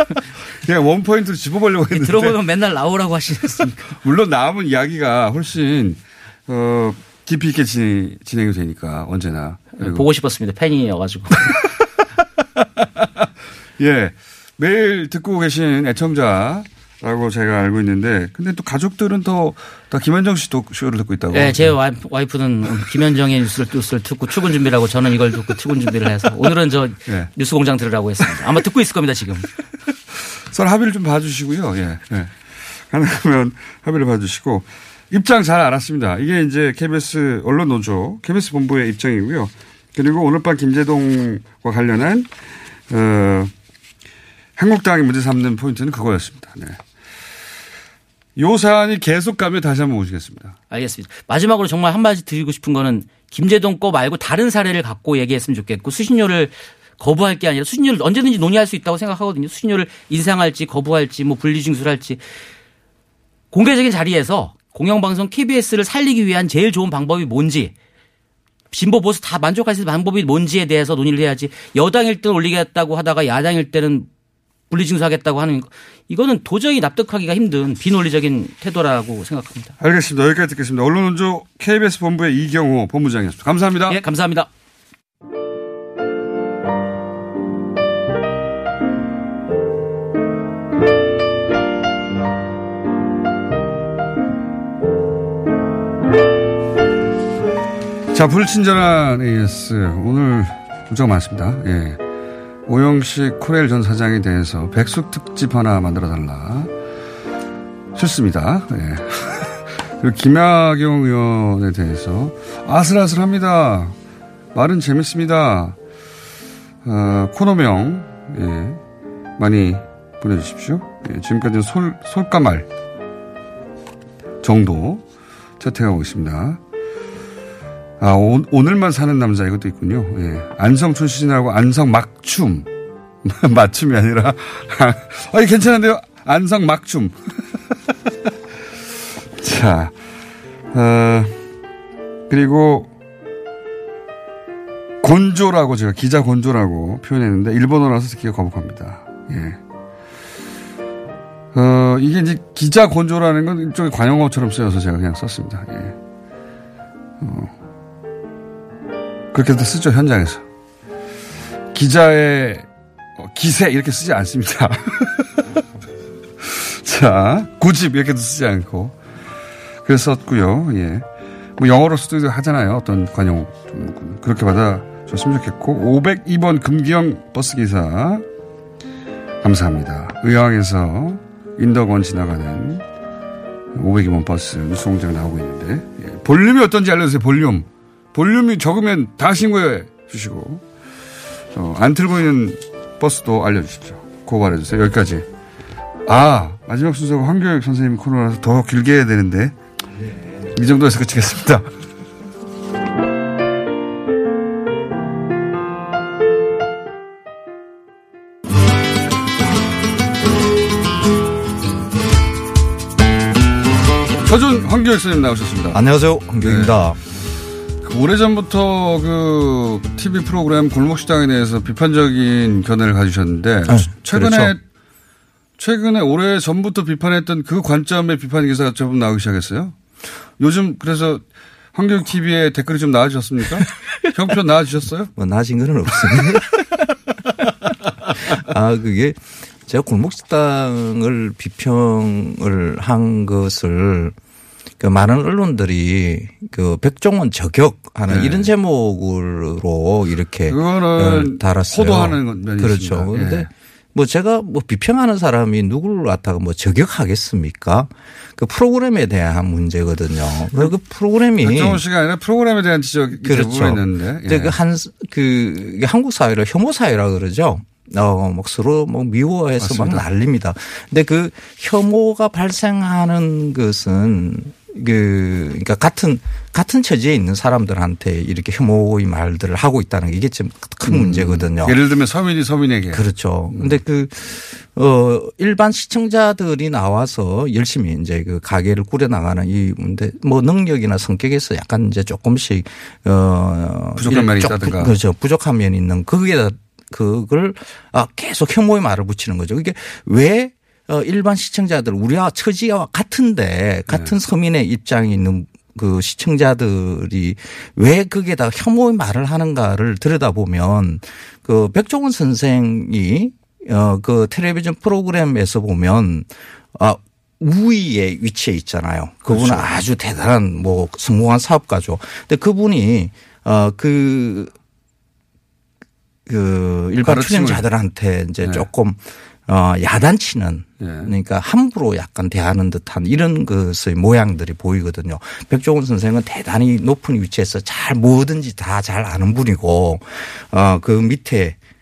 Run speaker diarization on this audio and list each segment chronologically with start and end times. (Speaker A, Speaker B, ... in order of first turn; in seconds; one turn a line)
Speaker A: 0.6-2.4
Speaker B: 1.9-3.8
Speaker A: 3.7-10.1
Speaker B: 9.7-11.5
Speaker A: 12.8-13.3
Speaker A: 13.8-21.8
Speaker B: 21.3-29.5
Speaker A: 30.4-42.3
Speaker A: 42.9-43.5
Speaker A: 44.6-46.8
Speaker A: 48.4-50.6
Speaker B: 50.7-62.2
Speaker B: 63.5-67.7
Speaker B: 68.7-74.1
Speaker B: 74.7-79.8
Speaker A: 79.8-84.0
Speaker B: 83.9-84.5
Speaker A: 98.1-102.0
Speaker A: 102.7-106.7
Speaker A: 107.9-114.0
Speaker A: 114.5-115.8
Speaker A: 116.8-118.8
Speaker A: 119.4-122.7
Speaker A: 124.4-125.0
Speaker A: 125.6-126.6
Speaker A: 128.0-132.7
Speaker A: 133.2-137.6
Speaker A: 139.4-139.9
Speaker A: 140.7-141.4
Speaker A: 142.3-142.9
Speaker A: 145.0-149.6
Speaker A: 151.5-156.0
Speaker A: 157.2-157.5
Speaker A: 159.3-160.4
Speaker A: 161.7-162.7
Speaker A: 163.2-165.5
Speaker A: 166.4-169.0
Speaker A: 169.8-171.1
Speaker A: 171.6-178.2
Speaker A: 179.4-182.8
Speaker A: 183.7-190.6
Speaker A: 191.5-195.3
Speaker A: 196.1-199.6
Speaker A: 200.5-201.7
Speaker A: 214.2-215.8
Speaker C: 215.7-217.0
Speaker A: 216.3-216.9
Speaker A: 217.8-224.6
Speaker C: 223.7-224.6
Speaker A: 225.6-229.8
Speaker A: 230.4-235.1
Speaker C: 235.2-236.9
Speaker C: 238.3-244.2
Speaker C: 244.8-261.8
Speaker A: 248.1-248.5
Speaker A: 250.5-253.5
Speaker A: 261.4-264.5
Speaker C: 263.2-281.8
Speaker A: 269.6-270.1
Speaker A: 280.8-283.8
Speaker C: 282.9-324.5
Speaker A: 294.0-294.9
Speaker A: 303.9-304.1
Speaker A: 319.3-319.7
Speaker C: 326.3-341.6
Speaker A: 327.0-327.7
Speaker A: 330.8-331.1